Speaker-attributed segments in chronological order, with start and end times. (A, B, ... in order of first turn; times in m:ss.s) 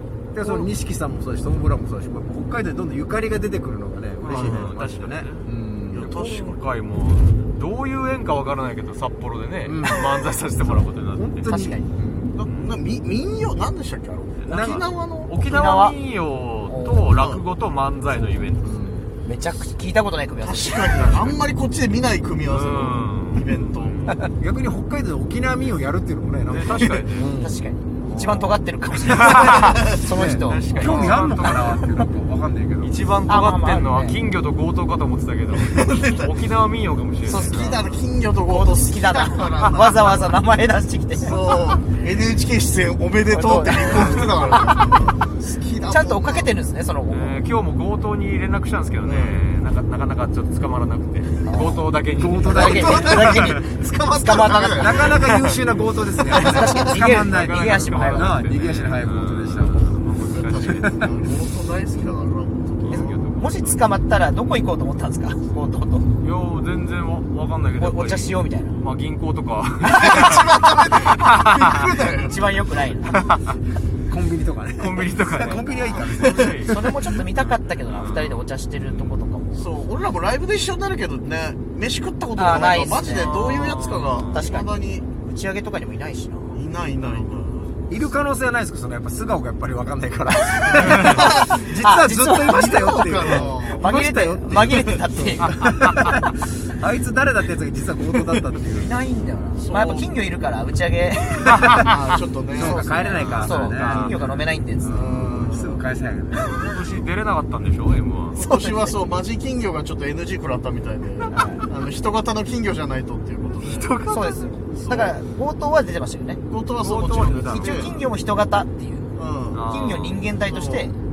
0:00.3-0:06.1 A
0:04.2-0:11.5 B
0:04.3-0:04.7 C
0:05.9-0:06.6 C
0:09.6-0:10.2 A
0:11.1-0:12.4 A
0:11.4-0:11.9 D
0:12.4-0:15.4 C
0:12.4-0:12.8 B
0:14.4-0:18.6 B
0:14.5-0:14.8 A
0:15.4-0:16.0 D
0:16.7-0:17.1 D
0:17.1-0:17.4 C
0:18.6-0:19.1 A
0:19.2-0:21.2 D
0:20.4-0:24.1 C
0:22.5-0:24.2 B
0:24.3-0:27.6 A
0:26.5-0:27.4 B
0:27.4-0:32.0 D
0:28.0-0:28.6 C
0:29.2-0:33.0 A
0:29.2-0:29.8 B
0:29.4-0:30.0 C
0:30.4-0:31.9 B
0:32.8-0:37.6 B
0:33.3-0:34.2 D
0:35.5-0:36.3 C
0:37.2-0:37.9 D
0:37.4-0:40.3 C
0:38.4-0:41.6 D
0:41.2-0:46.5 C
0:43.3-0:44.4 D
0:45.8-0:47.4 D
0:47.1-0:53.1 B
0:49.0-0:49.4 C
0:51.4-0:51.8 D
0:52.2-0:53.5 A
0:52.5-0:55.3 D
0:52.5-0:55.4 C
0:54.8-0:59.9 A
0:56.3-0:56.8 C
0:56.3-0:58.4 D
0:56.9-1:00.8 B
1:00.2-1:03.3 C
1:00.7-1:01.1 A
1:02.8-1:03.8 B
1:02.9-1:06.1 D
1:06.2-1:11.9 B
1:07.8-1:08.8 D
1:09.8-1:12.4 C
1:12.1-1:13.2 D
1:13.1-1:13.4 B
1:14.1-1:17.1 A
1:14.8-1:16.8 B
1:16.6-1:19.7 D
1:17.4-1:19.2 B
1:19.6-1:25.0 C
1:22.4-1:23.4 D
1:23.1-1:24.4 B
1:24.3-1:26.6 D
1:26.5-1:27.8 C
1:27.0-1:27.6 B
1:27.9-1:38.9 A
1:30.9-1:31.7 C
1:31.7-1:35.6 D
1:32.5-1:33.9 C
1:35.4-1:36.2 B
1:38.7-1:41.8 D
1:39.6-1:40.1 C
1:41.8-1:42.9 C
1:42.5-1:44.2 A
1:42.6-1:45.2 D
1:43.2-1:44.4 B
1:44.8-1:46.5 A
1:44.9-1:45.8 C
1:46.5-1:48.4 B
1:48.4-1:54.0 C
1:48.4-1:49.2 D
1:51.3-1:51.7 D
1:53.5-1:54.6 B
1:54.1-1:56.4 D
1:54.8-1:55.2 C
1:56.5-1:58.0 C
1:56.8-1:57.9 B
1:57.5-2:01.0 D
1:59.2-1:59.7 C
1:59.5-2:00.2 B
2:00.4-2:00.9 C